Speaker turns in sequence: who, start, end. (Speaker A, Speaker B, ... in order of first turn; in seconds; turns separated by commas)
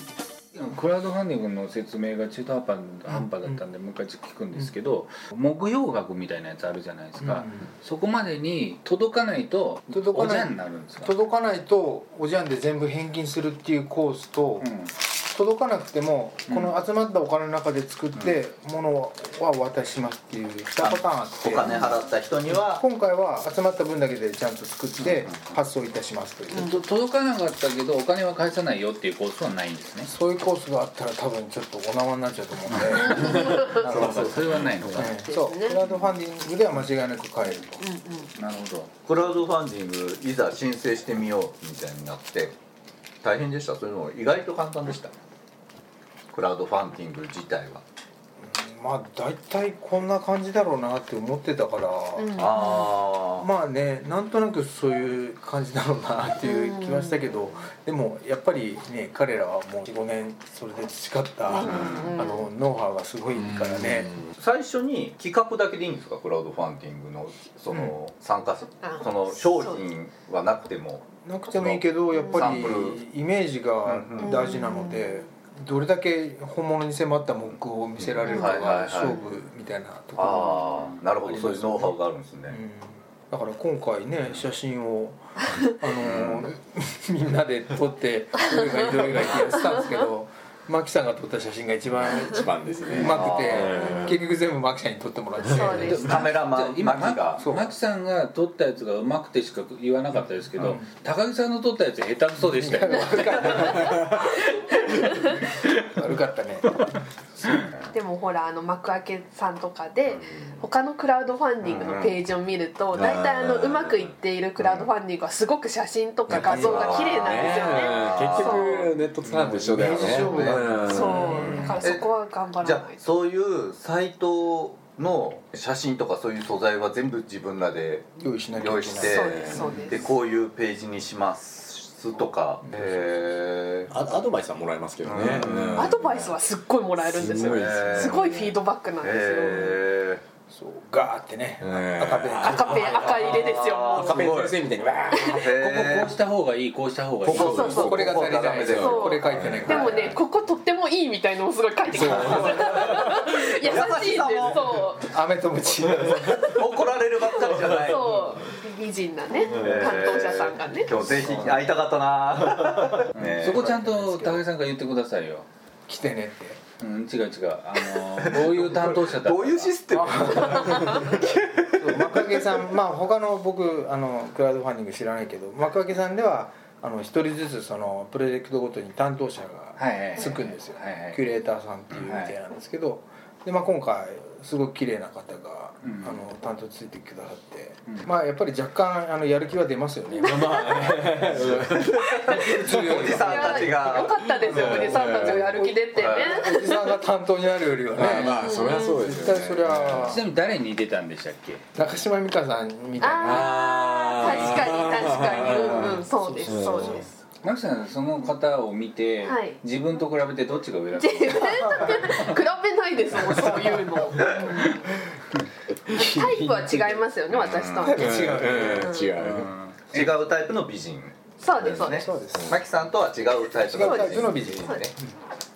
Speaker A: 0.5-11.1, Speaker B: 3.1-3.6, Speaker B: 7.2-7.6, Speaker B: 9.9-21.9, Speaker A: 14.6-14.9, Speaker A: 16.5-16.8, Speaker C: 20.8-22.8, Speaker B: 22.5-26.8, Speaker A: 26.5-30.1, Speaker B: 30.0-37.8, Speaker A: 32.7-35.2, Speaker D: 33.1-33.9, Speaker E: 33.2-35.1, Speaker D: 35.2-35.8, Speaker D: 37.8-38.3, Speaker A: 38.4-38.9, Speaker C: 39.0-42.5, Speaker C: 43.2-45.1, Speaker C: 46.3-47.8, Speaker B: 48.4-52.4, Speaker D: 52.2-52.9, Speaker C: 52.4-53.5, Speaker B: 53.4-64.2, Speaker D: 56.4-57.4, Speaker D: 61.5-62.5, Speaker C: 64.3-73.0, Speaker D: 68.8-69.8, Speaker B: 71.2-96.2, Speaker D: 72.1-72.4, Speaker C: 73.8-74.4, Speaker D: 74.2-75.2, Speaker C: 78.3-79.2, Speaker D: 78.3-79.3, Speaker C: 80.2-82.6, Speaker C: 86.0-86.5, Speaker E: 92.2-94.2, Speaker C: 93.0-93.9, Speaker D: 93.9-94.1, Speaker D: 95.5-96.0, Speaker A: 95.8-103.9, Speaker C: 96.0-97.4, Speaker B: 97.4-97.7, Speaker B: 100.6-100.9, Speaker B: 102.4-104.3, Speaker D: 103.6-104.2, Speaker D: 104.8-105.3, Speaker B: 105.8-106.9, Speaker D: 107.9-118.9, Speaker C: 111.6-112.2, Speaker E: 113.0-114.9, Speaker E: 116.3-121.7, Speaker B: 116.3-116.9, Speaker C: 116.7-118.7, Speaker A: 119.2-119.7, Speaker B: 119.7-120.8, Speaker C: 119.8-122.1, Speaker D: 120.2-123.2, Speaker A: 121.5-121.8, Speaker C: 122.6-133.9, Speaker B: 128.2-129.2, Speaker D: 129.0-130.1, Speaker E: 129.1-129.7, Speaker B: 132.6-133.2, Speaker E: 133.9-136.3, Speaker C: 135.0-135.9, Speaker B: 135.2-135.5, Speaker D: 135.7-139.6, Speaker E: 137.0-138.6, Speaker C: 137.2-138.2, Speaker C: 139.0-140.2, Speaker B: 140.5-142.9, Speaker E: 141.6-145.5, Speaker D: 142.4-144.2, Speaker C: 143.0-144.6, Speaker D: 145.1-145.5, Speaker C: 145.1-146.1, Speaker A: 145.6-148.1, Speaker C: 147.2-150.1, Speaker D: 147.3-147.8, Speaker B: 147.6-150.2, Speaker E: 148.6-149.9, Speaker D: 148.7-155.0, Speaker B: 151.9-153.1, Speaker C: 151.9-154.7, Speaker B: 155.0-156.7, Speaker C: 156.4-158.3, Speaker D: 157.4-160.9, Speaker C: 159.5-163.6, Speaker E: 159.6-159.9, Speaker B: 160.9-161.7, Speaker A: 163.1-165.5, Speaker B: 163.4-164.4, Speaker B: 165.9-166.6, Speaker A: 166.8-170.7, Speaker C: 168.2-172.6, Speaker B: 169.9-191.6, Speaker A: 179.8-181.2, Speaker A: 182.0-182.3, Speaker A: 185.8-186.2, Speaker E: 190.2-193.1, Speaker C: 191.6-194.3, Speaker B: 192.5-193.8, Speaker A: 192.8-193.2, Speaker D: 193.0-196.9, Speaker E: 194.4-195.6, Speaker B: 195.3-200.2, Speaker C: 195.9-196.4, Speaker E: 197.9-200.1, Speaker A: 198.0-198.4, Speaker D: 198.4-199.2, Speaker A: 199.9-201.6, Speaker B: 201.7-203.5, Speaker D: 203.0-207.1, Speaker E: 203.2-207.0, Speaker A: 204.2-204.6, Speaker B: 206.2-207.0, Speaker A: 207.4-212.4, Speaker D: 209.2-209.6, Speaker D: 211.0-214.9, Speaker D: 215.9-219.1, Speaker B: 216.0-216.9, Speaker C: 217.3-217.9, Speaker B: 217.8-218.9, Speaker E: 217.9-219.5, Speaker A: 219.2-220.2, Speaker C: 219.9-224.9, Speaker D: 221.4-222.0, Speaker B: 221.8-222.6, Speaker E: 222.3-222.6, Speaker B: 223.6-225.1, Speaker D: 223.8-224.8